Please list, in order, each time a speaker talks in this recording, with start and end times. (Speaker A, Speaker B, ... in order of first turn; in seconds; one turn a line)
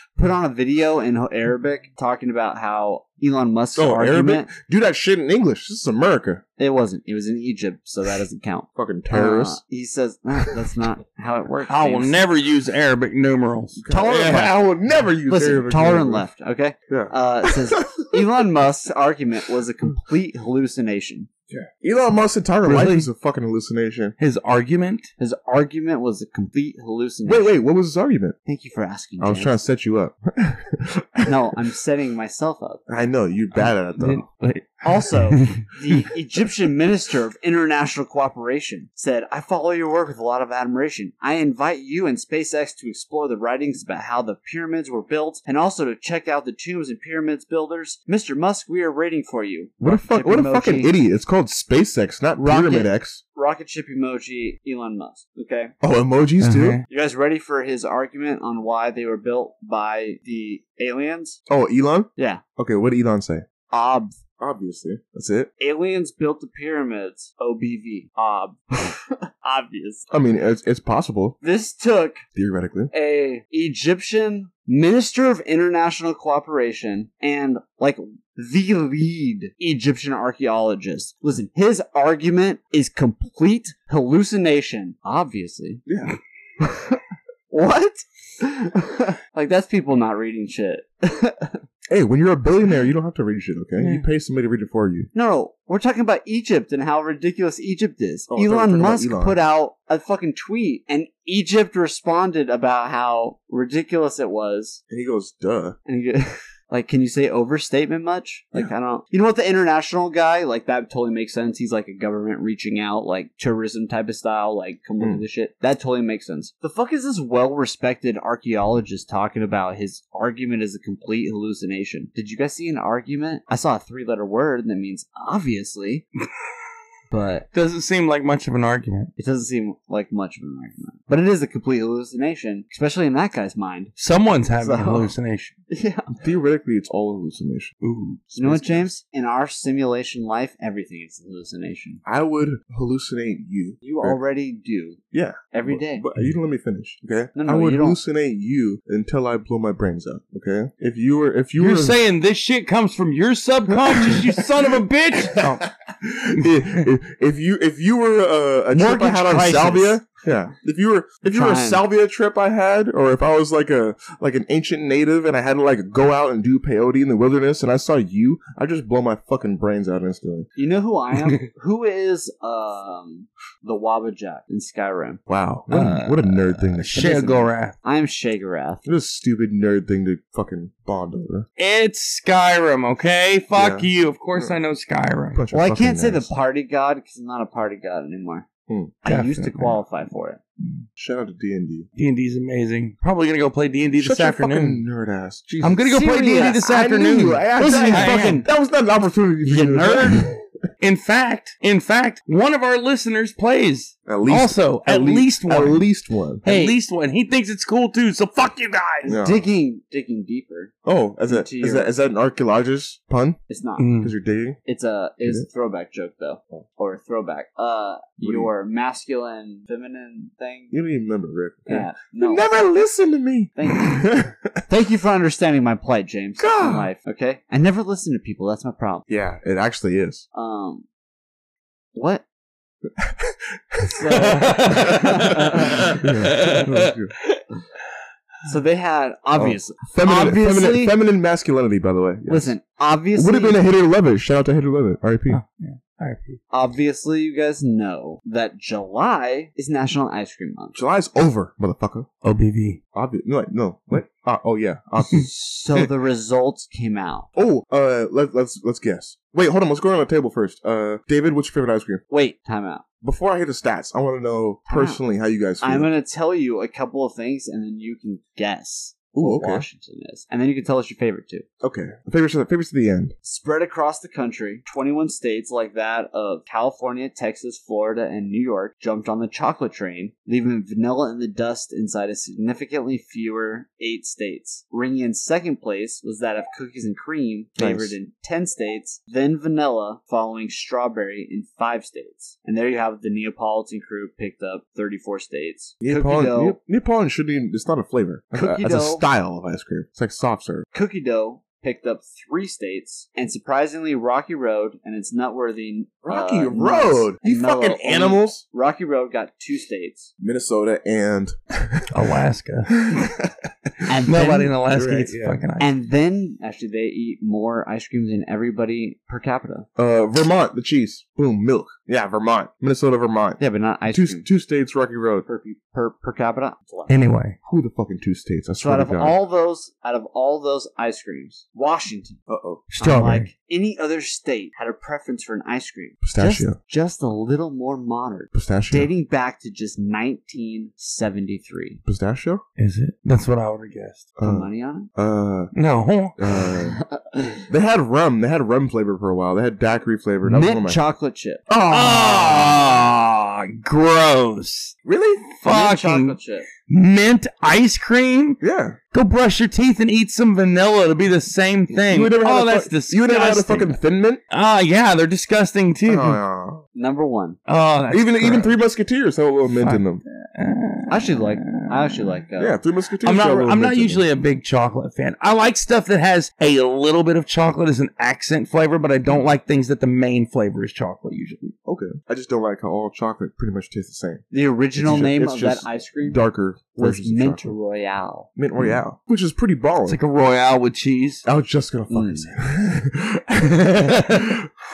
Speaker A: 0.2-4.5
Speaker B: 3.8-6.4
Speaker A: 6.6-12.2
Speaker B: 8.8-9.6
Speaker C: 11.7-13.8
Speaker B: 13.8-16.3
Speaker A: 13.9-14.6
Speaker A: 15.3-21.3
Speaker B: 16.9-18.2
Speaker B: 21.5-24.1
Speaker C: 22.6-23.1
Speaker C: 24.2-25.1
Speaker A: 25.2-27.6
Speaker B: 27.3-28.4
Speaker A: 28.5-29.6
Speaker B: 29.2-31.3
Speaker A: 31.3-32.9
Speaker B: 32.9-34.2
Speaker C: 33.5-36.0
Speaker A: 34.8-51.0
Speaker B: 49.8-53.2
Speaker A: 52.4-55.7
Speaker B: 55.8-56.8
Speaker C: 56.4-56.8
Speaker A: 56.9-61.4
Speaker B: 61.5-63.5
Speaker A: 62.2-62.4
Speaker A: 63.7-64.2
Speaker B: 64.4-65.5
Speaker A: 65.6-70.1
Speaker B: 70.1-71.4
Speaker A: 71.4-72.2
Speaker B: 72.3-72.9
Speaker A: 72.9-85.9
Speaker B: 85.9-86.2
Speaker A: 86.6-87.0
Speaker A: 87.5-91.6
Speaker B: 91.9-95.1
Speaker C: 93.8-94.0
Speaker A: 95.1-104.8
Speaker B: 98.3-99.4
Speaker B: 104.9-105.8
Speaker A: 105.9-126.1
Speaker A: 127.1-127.5
Speaker C: 127.5-129.1
Speaker A: 129.2-134.0
Speaker C: 134.0-135.6
Speaker A: 134.6-135.1
Speaker A: 135.7-136.1
Speaker B: 136.1-137.8
Speaker C: 137.8-138.2
Speaker A: 138.3-142.0
Speaker B: 138.4-138.9
Speaker B: 142.1-144.2
Speaker A: 143.8-145.0
Speaker B: 145.1-152.0
Speaker A: 145.5-146.1
Speaker A: 147.3-148.0
Speaker C: 151.6-155.7
Speaker B: 153.7-170.5
Speaker C: 156.4-156.9
Speaker A: 158.7-160.0
Speaker A: 161.3-161.8
Speaker A: 170.6-175.2
Speaker B: 175.3-177.0
Speaker C: 175.7-177.8
Speaker A: 176.9-178.8
Speaker B: 178.9-181.5
Speaker C: 181.6-185.4
Speaker B: 183.5-184.6
Speaker B: 185.3-186.3
Speaker A: 185.5-188.5
Speaker B: 188.7-188.9
Speaker A: 189.0-190.4
Speaker C: 189.1-189.8
Speaker B: 191.0-191.9
Speaker C: 192.0-194.8
Speaker B: 194.0-200.4
Speaker C: 195.6-198.4
Speaker A: 195.9-196.6
Speaker A: 197.6-198.5
Speaker A: 199.5-200.3
Speaker C: 200.8-205.8
Speaker B: 204.1-206.4
Speaker A: 206.4-206.8
Speaker C: 206.4-209.2
Speaker A: 209.0-210.7
Speaker B: 209.1-209.5
Speaker B: 210.8-213.4
Speaker A: 211.3-211.9
Speaker A: 213.5-213.9
Speaker C: 213.8-214.1
Speaker B: 214.0-214.6
Speaker A: 214.7-220.7
Speaker B: 218.2-218.5
Speaker B: 220.7-224.6
Speaker A: 221.7-222.5
Speaker A: 223.6-224.1
Speaker A: 224.7-229.1
Speaker B: 226.4-226.9
Speaker B: 229.1-230.3
Speaker A: 230.3-230.9
Speaker A: 231.9-232.2
Speaker B: 233.0-237.1
Speaker A: 233.8-236.0
Speaker C: 234.2-237.4
Speaker A: 238.5-240.9
Speaker B: 239.4-242.6
Speaker A: 242.3-243.6
Speaker B: 243.2-245.4
Speaker C: 245.3-246.4
Speaker A: 246.5-250.8
Speaker B: 250.8-252.1
Speaker C: 252.2-252.8
Speaker B: 252.9-255.3
Speaker A: 255.1-257.3
Speaker B: 257.4-262.0
Speaker A: 262.1-262.9
Speaker B: 263.0-265.9
Speaker A: 264.7-265.0
Speaker A: 265.6-271.4
Speaker B: 269.1-269.7
Speaker B: 271.6-273.1
Speaker A: 273.2-296.6
Speaker B: 287.6-288.0
Speaker B: 295.8-300.7
Speaker A: 298.3-299.1
Speaker A: 300.7-310.1
Speaker B: 306.1-308.4
Speaker B: 310.2-312.2
Speaker C: 311.9-312.8
Speaker B: 312.7-313.7
Speaker A: 313.9-314.6
Speaker C: 314.1-315.7
Speaker B: 314.7-315.4
Speaker A: 315.6-319.7
Speaker B: 319.8-325.3
Speaker A: 323.4-324.3
Speaker A: 325.3-326.9
Speaker C: 326.9-327.4
Speaker B: 327.5-329.2
Speaker A: 328.6-332.2
Speaker B: 332.3-332.7
Speaker C: 332.7-333.3
Speaker A: 332.8-341.8
Speaker B: 336.0-336.6
Speaker B: 338.3-338.9
Speaker B: 341.9-342.4
Speaker C: 342.6-344.1
Speaker B: 344.2-345.5
Speaker A: 344.2-344.9
Speaker C: 345.5-346.6
Speaker B: 346.2-346.8
Speaker A: 346.8-347.5
Speaker B: 347.5-350.8
Speaker A: 350.3-351.4
Speaker B: 351.5-352.7
Speaker C: 351.7-354.8
Speaker B: 354.9-355.3
Speaker C: 355.4-358.4
Speaker A: 355.4-356.5
Speaker B: 358.4-358.8
Speaker C: 358.9-363.8
Speaker B: 361.7-364.2
Speaker C: 364.3-366.2
Speaker B: 365.9-366.6
Speaker A: 366.8-367.4
Speaker C: 367.5-368.6
Speaker B: 367.9-370.0
Speaker C: 369.6-372.2
Speaker A: 370.9-372.6
Speaker B: 372.4-374.1
Speaker C: 373.0-381.5
Speaker B: 381.6-384.2
Speaker A: 384.3-386.2
Speaker B: 384.8-387.5
Speaker A: 386.8-388.3
Speaker B: 388.4-390.0
Speaker C: 389.9-391.2
Speaker B: 391.2-394.5
Speaker A: 391.9-392.3
Speaker C: 393.6-394.4